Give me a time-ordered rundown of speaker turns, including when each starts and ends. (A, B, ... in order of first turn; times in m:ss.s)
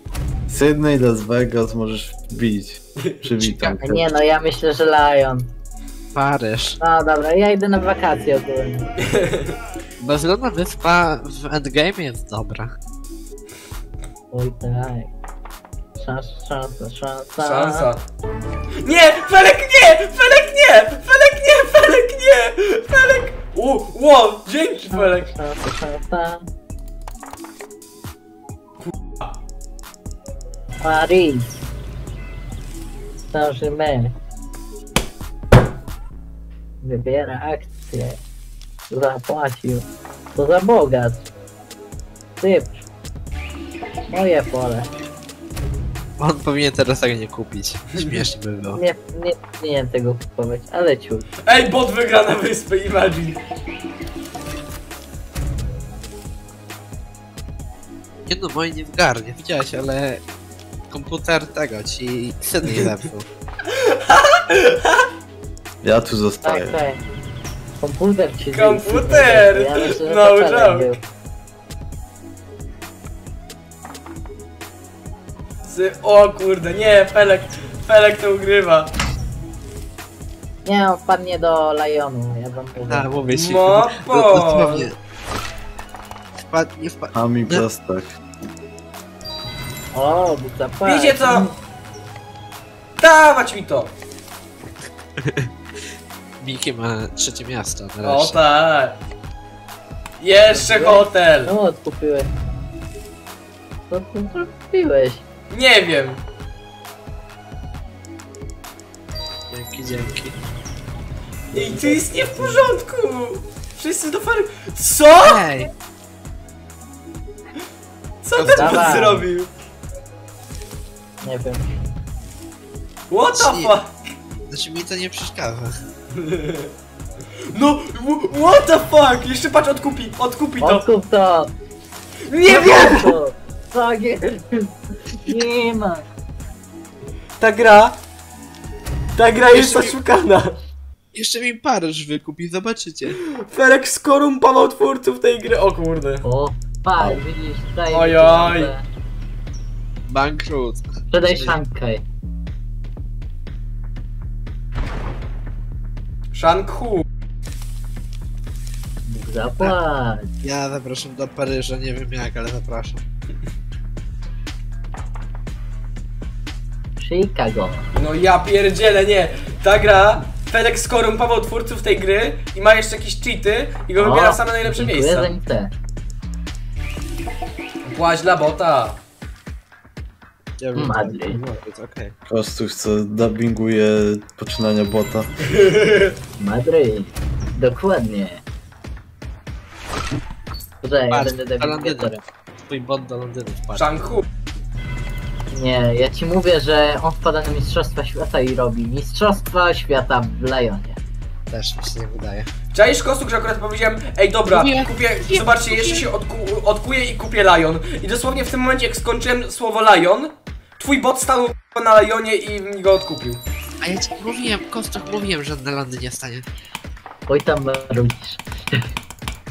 0:00.5-0:04.1 A
0:03.4-0:03.8 B
0:03.8-0:05.5 C
0:06.2-0:06.8 B
0:06.8-0:08.9 C
0:09.0-0:09.6 D
0:10.0-0:12.7 B
0:14.3-0:15.1 C
0:16.0-0:17.9 C
0:17.4-0:18.0 D
0:18.8-0:25.3 D
0:24.9-0:26.5 C
0:30.8-0:31.5 C
0:33.3-0:34.2 C
0:36.8-0:38.2 C
0:38.9-0:41.2 C
0:42.4-0:42.8 C
0:44.1-0:44.9 C
0:46.2-0:48.8 B
0:48.8-0:51.3 C
0:51.4-0:53.4 D
0:58.3-1:00.2 B
1:00.9-1:03.3 B
1:03.7-1:05.0 D
1:05.8-1:06.8 A
1:06.4-1:07.0 C
1:07.8-1:11.0 C
1:08.4-1:11.0 D
1:15.7-1:18.9 D
1:20.6-1:23.2 C
1:22.8-1:25.0 B
1:23.3-1:24.9 D
1:26.4-1:27.6 B
1:27.1-1:28.1 A
1:29.9-1:31.5 C
1:30.8-1:31.5 D
1:33.0-1:33.9 D
1:35.2-1:35.5 B
1:36.4-1:38.4 B
1:38.0-1:39.0 D
1:40.2-1:41.5 D
1:40.5-1:42.3 C
1:43.9-1:45.2 C
1:45.5-1:46.2 D
1:49.5-1:50.4 B
1:51.5-1:52.7 C
1:51.5-1:55.4 D
1:55.2-1:55.7 B
1:58.2-1:59.5 D
1:58.4-1:59.0 B
1:58.5-1:59.3 C
2:01.2-2:01.6 C
2:03.1-2:04.0 D
2:03.3-2:03.7 B
2:04.5-2:05.7 B
2:06.2-2:06.7 D
2:07.5-2:10.9 D
2:10.6-2:11.5 C
2:12.3-2:13.2 D
2:12.5-2:16.1 C
2:17.4-2:18.0 D
2:19.2-2:20.6 D
2:19.5-2:20.0 B
2:21.1-2:23.2 B
2:23.2-2:26.2 D
2:26.2-2:28.8 C
2:27.9-2:28.7 D
2:30.1-2:31.6 B
2:31.1-2:32.0 C
2:36.3-2:37.0 D
2:39.1-2:40.3 C
2:40.4-2:43.0 B
2:47.0-2:47.9 C
2:48.0-2:55.3 D
2:54.0-2:55.7 C
2:57.8-2:59.0 D
3:00.6-3:02.2 B
3:00.8-3:01.4 C
3:02.3-3:05.3 A
3:05.5-3:06.1 D
3:06.4-3:08.4 C
3:10.8-3:12.2 C
3:11.1-3:14.1 B
3:13.8-3:14.2 D
3:15.5-3:21.0 C
3:21.5-3:22.5 B
3:22.7-3:33.4 D
3:24.5-3:26.0 B
3:33.8-3:36.5 B
3:37.3-3:38.8 C